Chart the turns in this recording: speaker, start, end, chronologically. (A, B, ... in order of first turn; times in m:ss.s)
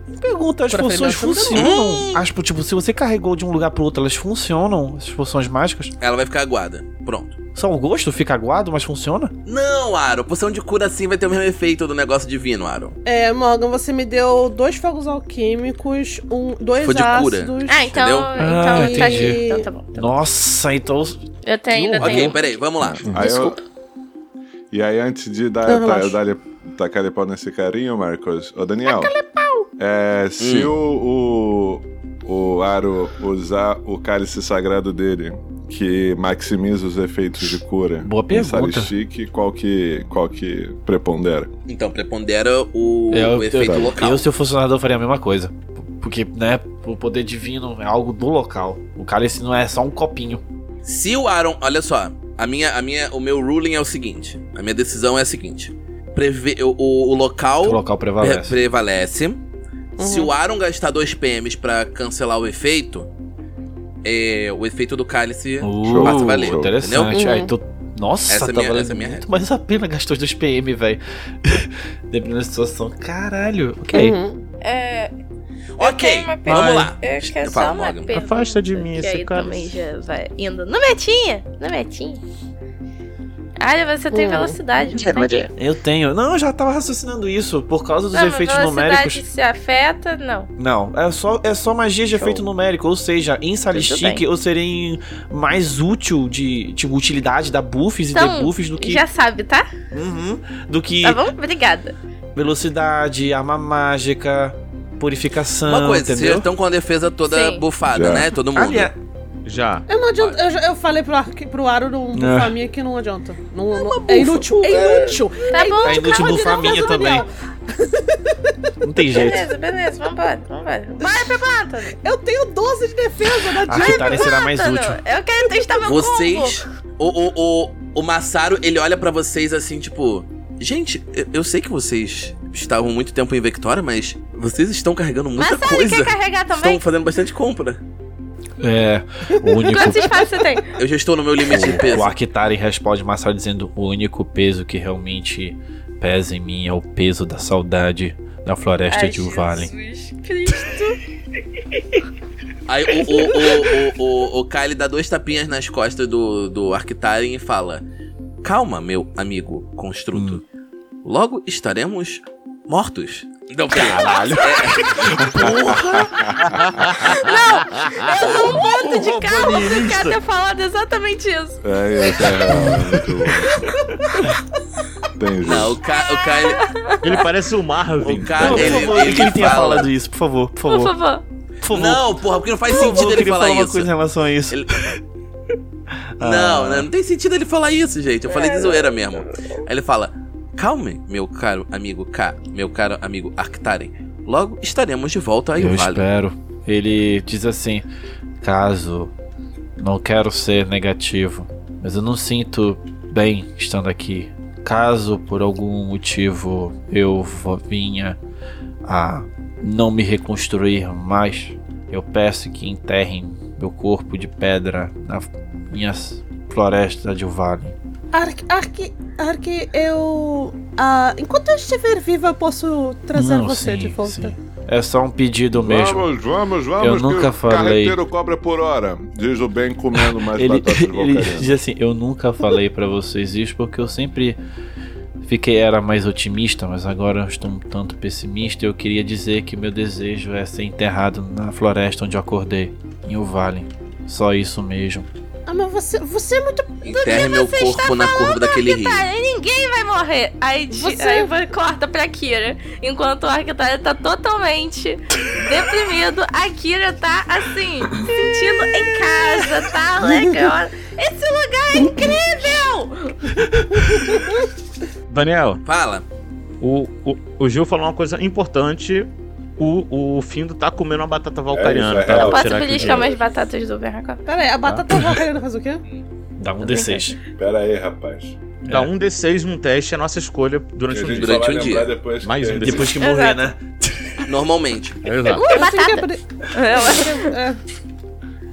0:00.2-0:05.9 A
0:00.7-0:01.7 B
0:01.5-0:02.2 C
0:06.0-0:07.4 C
0:07.6-0:09.3 A
0:09.5-0:13.0 C
0:13.0-0:17.9 B
0:16.8-0:18.3 C
0:17.7-0:20.2 D
0:18.4-0:22.4 A
0:18.5-0:19.7 B
0:21.4-0:22.5 D
0:22.0-0:23.1 C
0:22.8-0:23.6 E
0:23.1-0:23.6 D
0:24.7-0:29.1 E
0:25.7-0:26.2 B
0:28.8-0:29.7 D
0:29.8-0:41.5 E
0:30.4-0:30.7 C
0:38.0-0:38.9 A
0:41.7-0:44.3 C
0:43.1-0:50.4 A
0:43.6-0:44.0 E
0:50.8-0:59.4 C
0:57.6-0:58.6 A
1:00.0-1:00.3 B
1:00.0-1:03.1 C
1:04.0-1:07.2 C
1:05.6-1:14.2 A
1:05.8-1:06.8 E
1:07.1-1:07.5 B
1:08.3-1:09.3 C
1:13.9-1:14.4 B
1:14.6-1:15.1 D
1:15.8-1:18.2 C
1:15.8-1:22.2 D
1:16.5-1:16.9 A
1:18.1-1:19.8 F
1:23.6-1:25.5 D
1:24.1-1:24.6 B
1:25.0-1:25.5 F
1:25.6-1:29.2 A
1:28.1-1:30.5 D
1:30.6-1:39.0 A
1:32.1-1:32.4 D
1:33.7-1:34.2 D
1:38.1-1:39.7 D
1:39.9-1:41.3 A
1:41.0-1:42.0 D
1:42.4-1:46.5 A
1:45.7-1:48.9 C
1:47.3-1:47.6 D
1:47.8-1:48.3 E
1:48.5-1:49.0 A
1:49.4-1:49.9 F
1:49.9-1:58.5 B
1:52.1-1:52.5 A
1:53.8-1:57.0 D
1:55.8-1:57.2 A
1:58.8-1:59.4 A
1:59.1-2:02.0 D
2:01.0-2:04.4 B
2:03.7-2:05.0 A
2:03.7-2:06.6 D
2:05.8-2:17.8 C
2:15.4-2:16.8 D
2:18.6-2:20.2 A
2:19.4-2:20.5 B
2:19.6-2:20.7 D
2:20.8-2:22.1 C
2:21.5-2:29.7 A
2:28.9-2:31.0 D
2:32.7-2:37.8 C
2:38.4-2:40.4 C
2:40.1-2:40.4 A
2:41.0-2:46.6 C
2:43.7-2:45.8 A
2:45.2-2:46.6 E
2:46.4-2:50.2 F
2:47.1-2:52.7 D
2:51.6-2:53.7 E
2:52.5-2:53.0 A
2:53.9-2:54.3 B
2:55.2-2:55.8 E
2:55.4-2:56.6 C
2:56.3-2:57.2 D
2:57.0-2:59.4 F
2:58.0-2:59.9 C
2:58.2-3:01.0 A
3:00.7-3:01.2 D
3:01.6-3:02.1 A
3:01.7-3:03.9 C
3:02.7-3:05.0 A
3:04.5-3:05.0 C
3:06.2-3:06.9 A
3:06.2-3:16.1 C
3:08.3-3:09.7 D
3:15.6-3:17.8 A
3:18.4-3:19.1 A
3:19.8-3:28.2 A
3:28.8-3:37.8 A
3:38.1-3:44.4 B
3:43.2-3:46.1 A
3:45.5-3:51.6 E
3:46.8-3:48.0 A
3:50.0-3:54.4 A
3:55.2-4:05.1 A
4:05.5-4:07.1 B
4:06.8-4:09.0 C
4:06.9-4:23.2 D
4:10.7-4:11.3 B
4:21.8-4:22.2 B
4:23.5-4:24.2 A
4:23.8-4:24.2 B
4:25.1-4:25.6 F
4:25.6-4:26.0 C
4:26.6-4:33.1 F
4:31.5-4:33.2 E
4:32.2-4:34.2 D
4:34.3-4:35.8 B
4:36.4-4:37.2 A
4:36.6-4:37.2 D
4:37.4-4:38.4 E
4:38.7-4:41.4 F
4:40.9-4:43.0 E
4:41.1-4:41.9 C
4:42.2-4:43.0 F
4:42.6-4:44.2 A
4:43.0-4:43.5 D
4:44.2-4:45.0 C
4:45.0-4:45.4 F
4:45.3-4:47.6 B
4:45.4-4:47.3 D